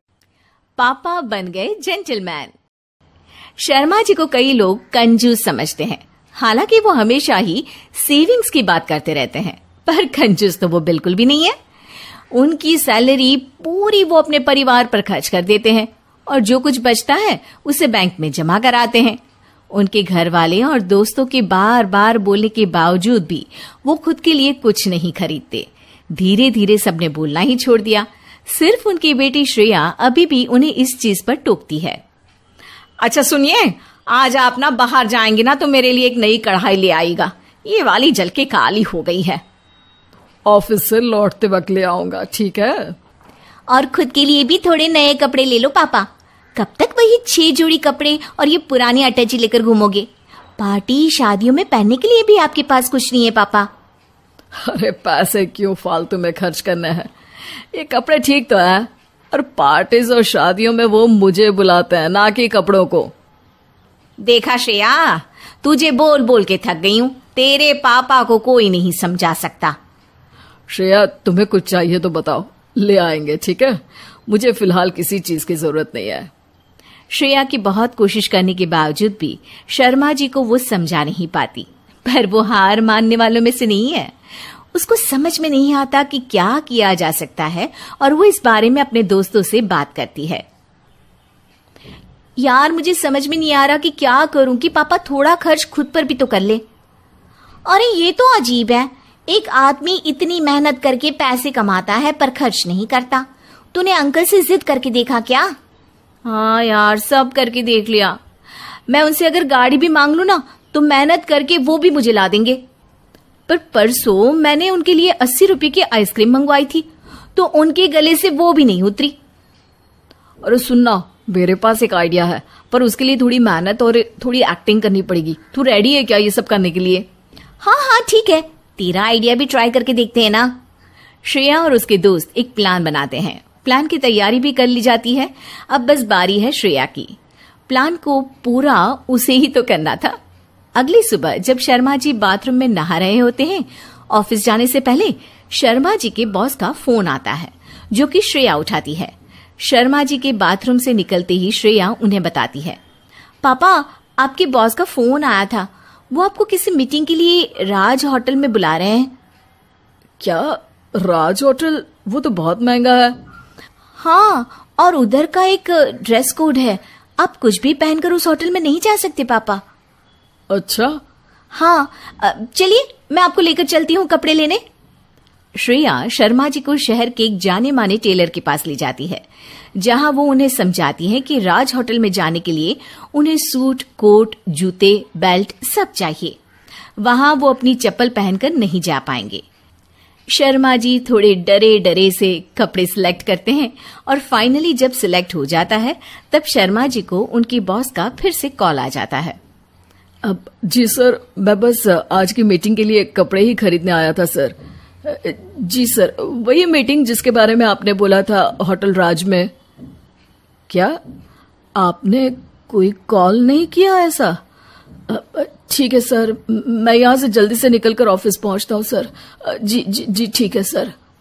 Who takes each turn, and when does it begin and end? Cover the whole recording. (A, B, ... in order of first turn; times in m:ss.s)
0:00.8-0:02.5 A
0:03.6-0:11.6 A
0:12.3-0:19.2 A
0:19.7-0:32.0 A
0:33.0-0:39.4 A
0:40.5-0:43.0 B
0:43.7-0:53.7 A
0:54.6-0:57.1 B
0:57.7-1:03.1 B
1:04.2-1:09.8 A
1:10.7-1:16.3 B
1:17.1-1:24.1 A
1:24.7-1:30.4 A
1:32.4-1:36.6 A
1:37.7-1:45.5 A
1:46.2-1:48.2 A
1:48.9-1:52.6 A
1:53.5-1:59.2 A
2:00.4-2:03.2 B
2:03.2-2:04.7 A
2:03.8-2:07.0 B
2:07.6-2:10.5 A
2:11.2-2:17.2 A
2:17.7-2:20.2 A
2:20.8-2:32.8 A
2:33.4-2:39.1 A
2:40.2-2:43.2 B
2:44.0-2:49.6 A
2:50.5-2:51.0 B
2:51.5-2:54.6 A
2:55.6-2:59.2 A
2:59.8-3:06.4 A
3:07.0-3:09.4 A
3:10.3-3:19.4 A
3:20.2-3:29.5 B
3:30.7-3:31.0 B
3:31.8-3:34.4 B
3:35.1-3:40.9 B